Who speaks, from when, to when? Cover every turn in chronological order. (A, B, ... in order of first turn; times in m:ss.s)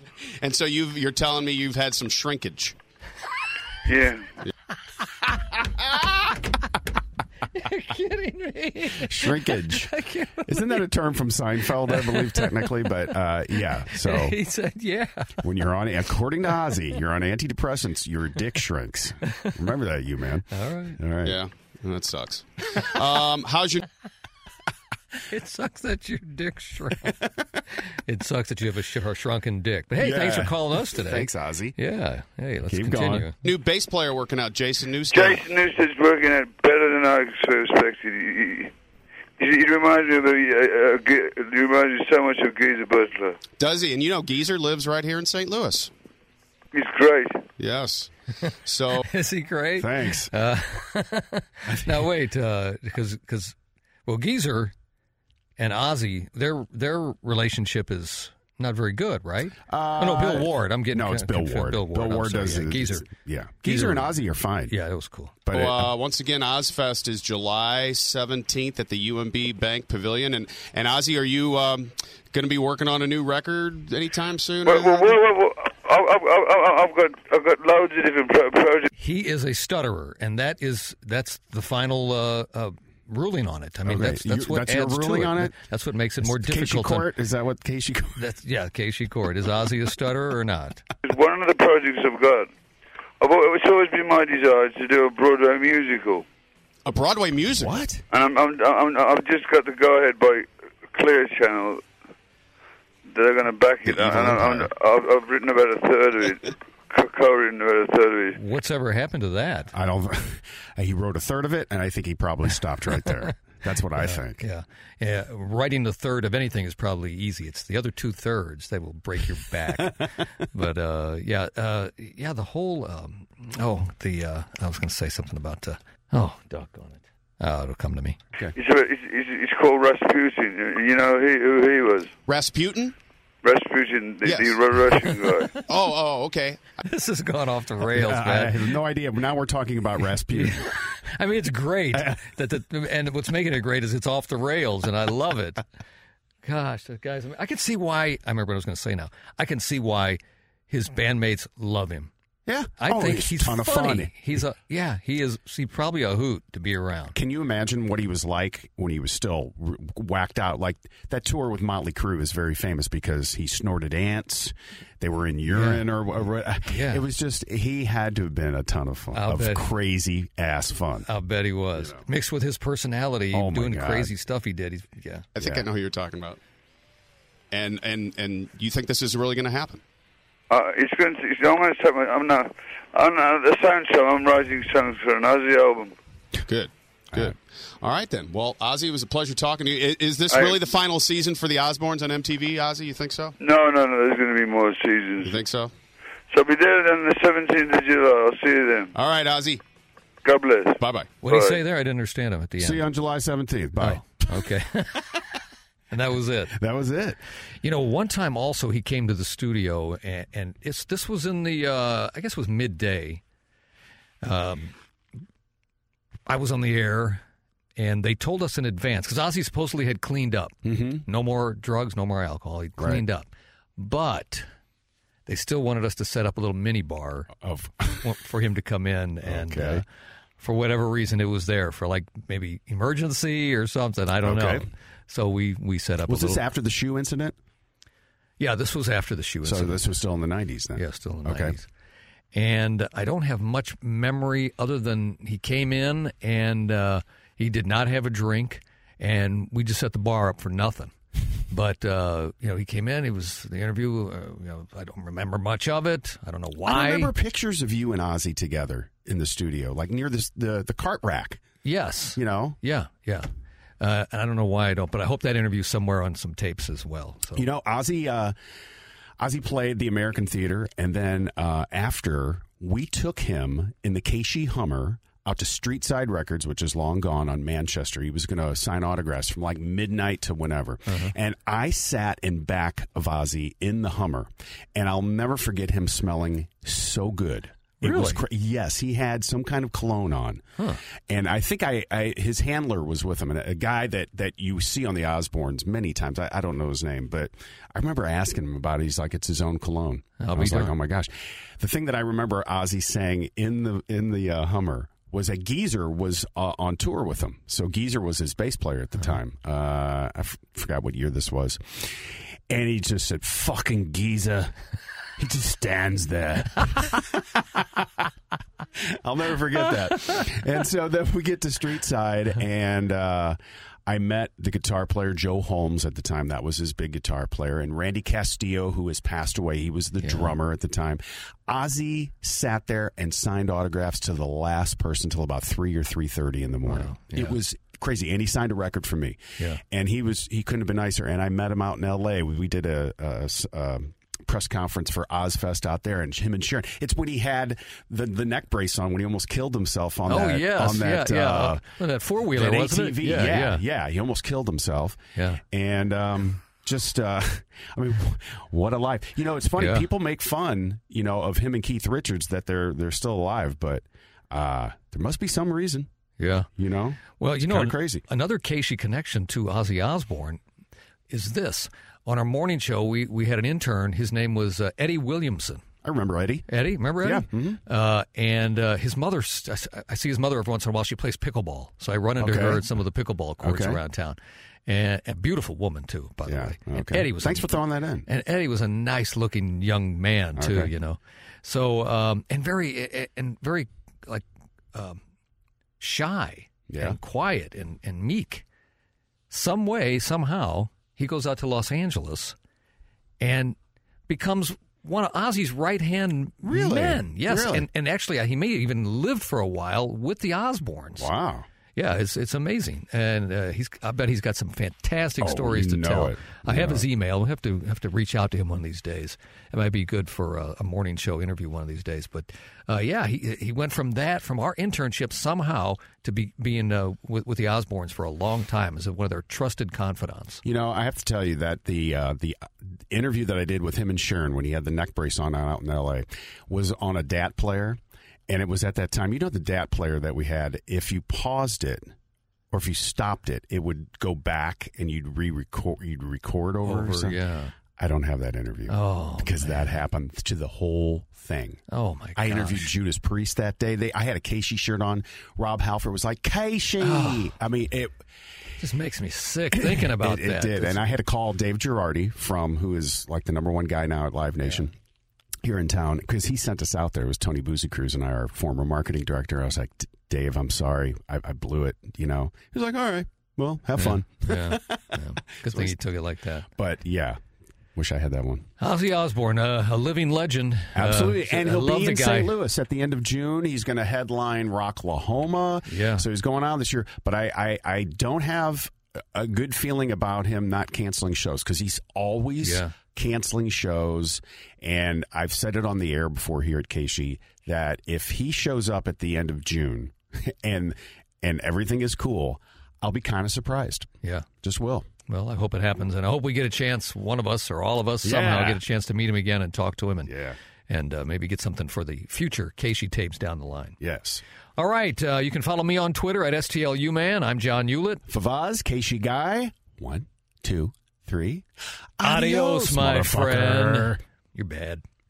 0:00.2-0:02.8 A
0:03.8-0:04.3 B
0:07.5-0:10.8 C
0:08.9-0:14.4 D
0:11.9-0:13.0 C
0:13.7-0:15.5 C
0:15.4-0:21.4 D
0:20.5-0:21.0 C
0:21.2-0:23.8 A
0:25.3-0:27.2 C
0:27.9-0:33.4 C
0:30.0-0:31.8 D
0:32.7-0:33.3 D
0:33.4-0:35.4 A
0:35.1-0:38.7 B
0:39.4-0:43.4 B
0:43.6-0:45.9 A
0:46.7-0:47.4 B
0:47.6-0:49.0 A
0:49.1-0:53.5 C
0:49.8-0:50.3 D
0:51.7-0:52.1 D
0:54.0-0:54.7 C
0:55.6-1:03.1 C
0:59.7-1:04.7 D
1:03.6-1:04.1 C
1:04.7-1:05.4 C
1:05.5-1:05.9 D
1:05.5-1:15.1 A
1:14.6-1:18.9 B
1:19.0-1:27.1 C
1:23.8-1:25.6 D
1:26.2-1:28.2 D
1:28.2-1:30.8 C
1:31.0-1:32.5 B
1:33.2-1:36.2 B
1:36.8-1:37.8 A
1:37.6-1:38.0 D
1:38.1-1:41.8 B
1:43.1-1:48.4 B
1:43.8-1:44.7 D
1:48.4-1:49.7 C
1:49.7-1:54.4 D
1:54.0-2:08.2 C
2:08.5-2:12.1 B
2:12.3-2:12.9 A
2:13.4-2:15.6 B
2:14.2-2:14.6 A
2:15.6-2:16.8 A
2:16.8-2:18.7 C
2:17.9-2:20.9 D
2:20.3-2:25.6 C
2:21.9-2:22.2 D
2:26.4-2:32.1 C
2:32.4-2:34.4 D
2:32.8-2:37.2 C
2:37.1-2:51.1 D
2:45.5-2:45.9 C
2:46.7-2:47.0 C
2:49.1-2:49.7 C
2:51.1-2:55.3 C
2:53.3-2:54.1 D
2:55.4-2:56.4 A
2:55.4-2:55.6 D
2:57.5-2:59.8 A
3:00.5-3:05.9 B
3:06.4-3:13.4 A
3:10.3-3:10.6 B
3:13.4-3:15.4 B
3:15.2-3:15.7 A
3:16.3-3:18.9 B
3:18.9-3:19.6 A
3:20.2-3:21.6 B
3:20.8-3:21.2 A
3:21.2-3:22.8 C
3:22.6-3:24.2 D
3:23.8-3:25.2 C
3:25.9-3:26.6 C
3:26.5-3:27.2 D
3:27.6-3:33.2 C
3:34.2-3:34.7 C
3:36.3-3:37.2 C
3:37.8-3:44.4 C
3:40.6-3:41.0 D
3:42.8-3:43.0 D
3:45.3-3:47.3 C
3:47.4-3:48.1 D
3:47.9-3:49.8 C
3:49.2-3:49.8 D
3:50.4-3:56.4 C
3:54.2-3:54.7 D
3:56.1-3:57.4 D
3:58.4-3:59.8 C
3:59.4-4:01.6 D
4:00.8-4:01.6 C
4:02.3-4:10.9 C
4:11.5-4:17.1 C
4:16.6-4:21.4 D
4:21.6-4:23.3 C
4:22.1-4:22.6 D
4:23.8-4:27.4 C
4:27.3-4:28.3 D
4:29.2-4:50.4 D
4:47.8-4:48.2 C
4:51.1-5:14.6 D
5:00.2-5:00.7 C
5:15.2-5:18.0 D
5:18.8-5:51.6 D
5:30.0-5:30.4 C
5:36.6-5:37.4 C
5:50.1-5:53.6 C
5:52.3-6:05.9 D
5:55.2-5:55.4 C
5:59.6-5:59.8 C
6:06.2-6:06.5 C
6:06.6-6:08.0 D
6:07.2-6:10.4 C
6:11.1-6:15.6 C
6:15.8-6:16.4 D
6:16.5-6:27.5 C
6:17.0-6:17.6 D
6:22.2-6:22.6 D
6:23.4-6:23.8 D
6:26.2-6:28.1 D
6:28.0-6:35.0 C
6:30.4-6:30.7 D
6:35.8-6:38.4 C
6:36.7-6:37.0 D
6:39.3-6:42.3 C
6:43.2-6:43.6 C
6:44.1-6:51.1 C
6:46.5-6:47.7 D
6:51.0-6:51.5 D
6:51.7-7:10.4 C
6:55.2-6:56.8 D
7:10.4-7:21.9 D
7:22.5-7:27.2 D
7:26.6-7:27.5 C
7:27.8-7:31.6 D
7:28.7-7:29.7 C
7:31.7-7:32.7 C
7:32.2-7:37.9 D
7:36.8-7:37.3 C
7:38.6-7:40.8 C
7:39.5-7:44.7 D
7:45.4-7:55.8 D
7:53.8-7:56.4 C
7:56.6-7:57.2 D
7:57.8-7:58.5 D
7:58.6-8:02.3 C
8:00.7-8:23.9 D
8:05.7-8:06.0 C
8:12.4-8:12.7 C
8:24.0-8:24.3 C
8:24.4-8:24.9 D
8:25.1-8:30.2 C
8:28.0-8:28.6 D
8:30.0-8:30.4 D
8:30.7-8:33.8 C
8:33.8-8:34.2 D
8:34.6-8:38.0 C
8:38.1-8:41.4 D
8:42.0-8:44.0 D
8:42.0-8:44.8 C